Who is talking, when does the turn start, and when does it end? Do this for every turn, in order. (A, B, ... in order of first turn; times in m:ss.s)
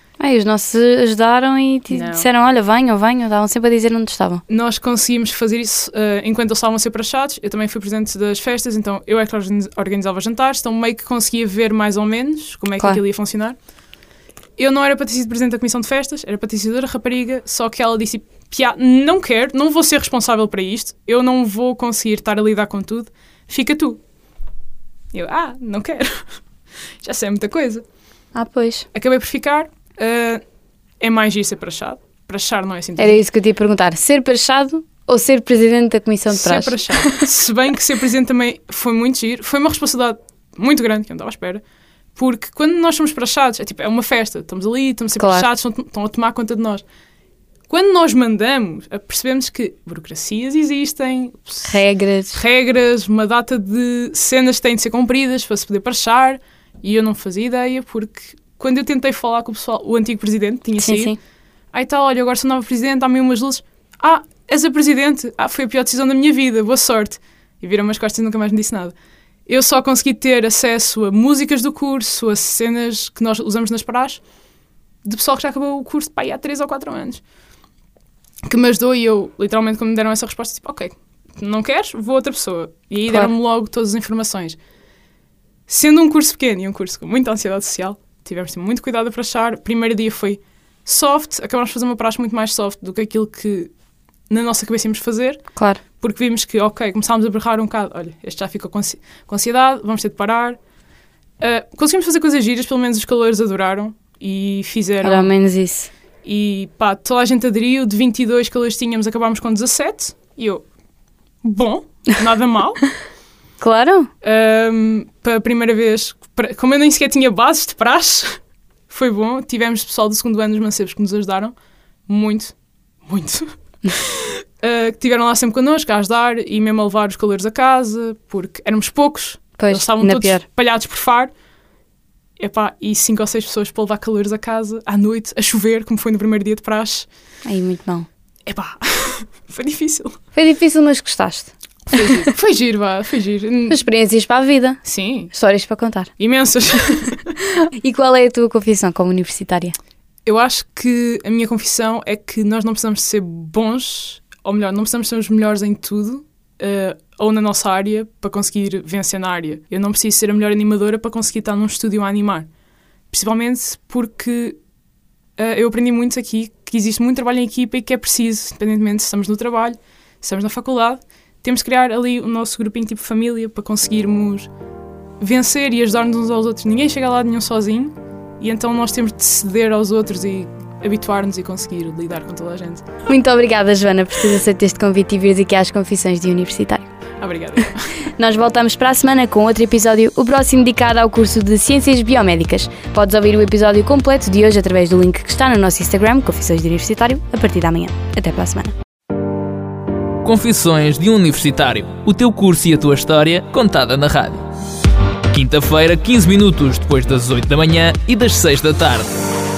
0:00.2-0:04.4 A
0:01.9-0:02.3 B
0:04.5-0:13.6 B
0:14.6-0:24.0 B
0:25.1-0:26.4 B
0:27.0-0:27.8 B
0:28.4-0:28.9 A
0:28.9-0:30.4 B
0:31.0-0:33.2 B
0:33.0-0:37.2 A
0:36.3-0:41.6 B
0:42.1-0:46.8 B
0:45.2-0:45.5 A
0:47.7-1:01.2 B
0:51.6-0:52.4 A
1:00.8-1:01.2 A
1:01.7-1:09.0 B
1:09.5-1:14.2 B
1:15.0-1:17.2 B
1:18.5-1:24.6 B
1:25.7-1:33.7 B
1:34.3-1:35.4 B
1:35.6-1:35.8 A
1:36.0-1:40.6 B
1:41.4-1:45.3 B
1:45.0-1:45.9 A
1:46.2-1:50.6 B
1:51.4-1:52.8 B
1:53.6-1:54.1 A
1:54.2-2:01.5 B
2:02.1-2:11.3 B
2:09.6-2:10.4 A
2:12.4-2:17.1 B
2:17.5-2:18.1 A
2:18.5-2:20.2 B
2:20.4-2:22.3 A
2:21.9-2:23.8 B
2:23.7-2:26.1 A
2:24.8-2:25.3 B
2:26.2-2:27.3 B
2:27.8-2:29.8 A
2:30.2-2:42.5 B
2:43.1-2:44.6 B
2:45.4-2:54.5 B
2:55.2-3:02.9 B
3:03.1-3:06.9 A
3:07.2-3:08.0 B
3:08.0-3:18.7 A
3:20.2-3:24.4 C
3:25.3-3:29.1 C